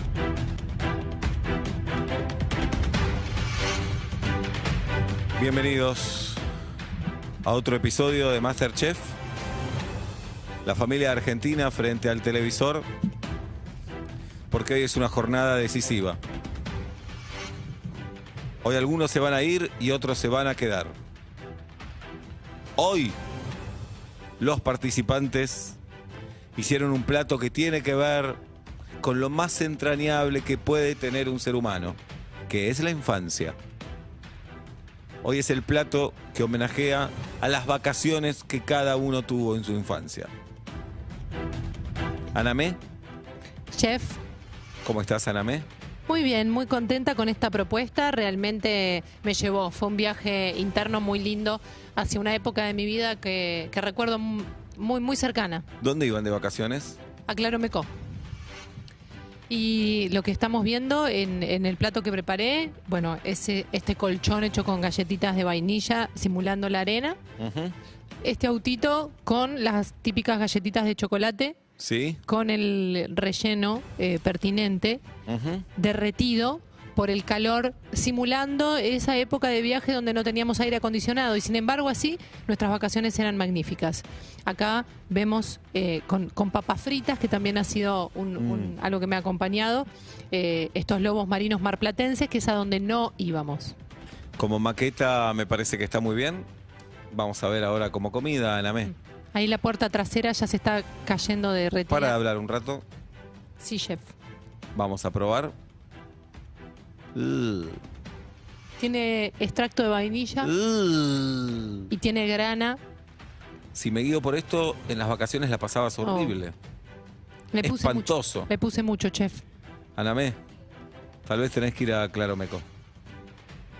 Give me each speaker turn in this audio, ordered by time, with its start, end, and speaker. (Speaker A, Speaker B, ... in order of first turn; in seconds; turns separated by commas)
Speaker A: 5.4-6.4, Speaker A: 7.4-9.2, Speaker A: 10.6-12.9, Speaker A: 14.5-16.2, Speaker A: 18.6-20.9, Speaker A: 22.8-23.2, Speaker A: 24.4-25.8, Speaker A: 26.6-28.4, Speaker A: 29.0-33.6, Speaker A: 35.2-40.3, Speaker A: 42.3-42.8, Speaker B: 43.7-44.2, Speaker A: 44.8-45.7, Speaker B: 46.1-55.7, Speaker A: 55.8-57.0, Speaker B: 57.3-57.9, Speaker B: 59.5-67.2, Speaker A: 67.4-67.8, Speaker B: 68.2-71.6, Speaker A: 71.8-72.2, Speaker B: 72.2-75.0, Speaker A: 75.3-75.7, Speaker B: 75.8-93.8, Speaker A: 88.4-88.8, Speaker A: 94.4-96.5, Speaker A: 97.1-98.9, Speaker B: 98.8-102.2, Speaker A: 101.9-102.8, Speaker B: 103.6-104.1, Speaker A: 104.7-105.6, Speaker A: 107.1-107.8, Speaker B: 108.8-110.5, Speaker A: 110.4-111.9, Speaker B: 111.9-112.8, Speaker A: 113.7-116.6, Speaker B: 116.0-116.4, Speaker B: 117.5-119.4, Speaker A: 117.6-118.5, Speaker A: 120.0-120.4, Speaker A: 121.3-122.7